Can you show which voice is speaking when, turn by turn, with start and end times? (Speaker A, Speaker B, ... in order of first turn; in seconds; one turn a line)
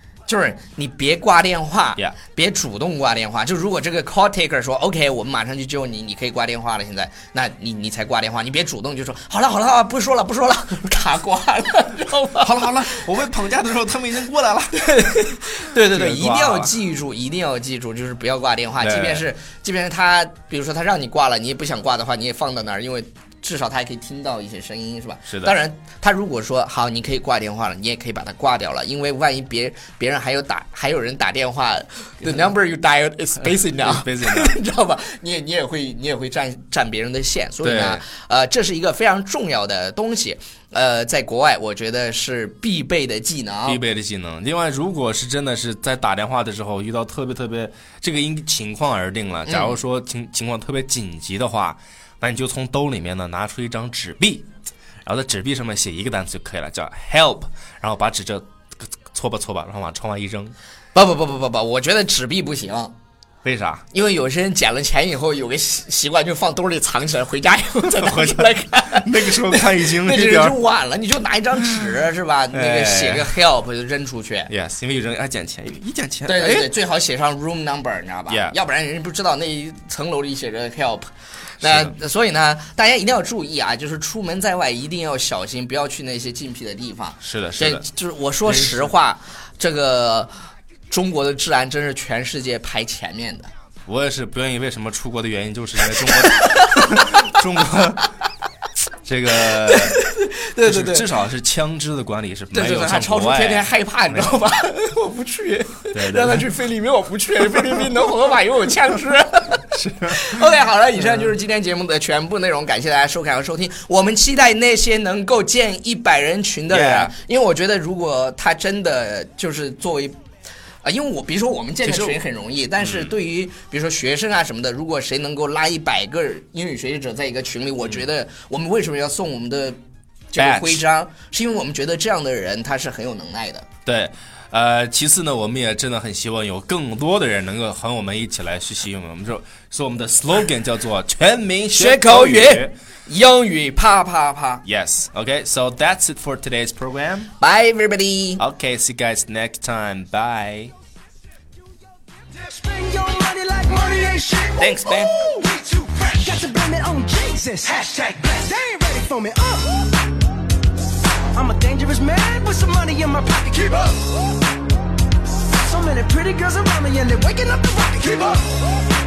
Speaker A: 0.3-13.0
Speaker B: 12.4-16.7
Speaker A: 14.8-43.8
Speaker B: 18.8-19.2
Speaker B: 25.3-25.5
Speaker B: 33.6-34.6
Speaker B: 37.6-38.0
Speaker B: 43.6-54.5
Speaker A: 49.5-49.8
Speaker B: 55.0-60.5
Speaker A: 60.9-62.9
Speaker B: 63.4-63.8
Speaker A: 63.9-74.5
Speaker B: 67.8-70.6
Speaker B: 71.6-72.0
Speaker B: 72.5-73.4
Speaker B: 74.5-76.7
Speaker A: 76.2-81.1
Speaker B: 78.3-78.6
Speaker A: 81.6-90.3
Speaker B: 81.6-81.9
Speaker B: 87.2-87.8
Speaker B: 88.5-88.9
Speaker A: 90.9-93.5
Speaker B: 93.9-98.1
Speaker A: 96.1-97.2
Speaker B: 99.0-100.0
Speaker A: 99.3-101.1
Speaker B: 100.6-104.4
Speaker A: 102.5-120.2
Speaker B: 105.9-106.5
Speaker B: 109.7-110.5
Speaker B: 116.7-117.1
Speaker A: 120.8-129.8
Speaker B: 121.8-122.2
Speaker B: 122.8-123.2
Speaker A: 130.3-133.7
Speaker B: 130.4-130.8
Speaker B: 133.8-142.7
Speaker A: 141.7-144.6
Speaker B: 144.7-147.3
Speaker A: 147.4-148.4
Speaker B: 148.4-150.7
Speaker C: 152.3-160.1
Speaker A: 154.6-155.3
Speaker C: 161.3-164.3
Speaker C: 165.4-168.7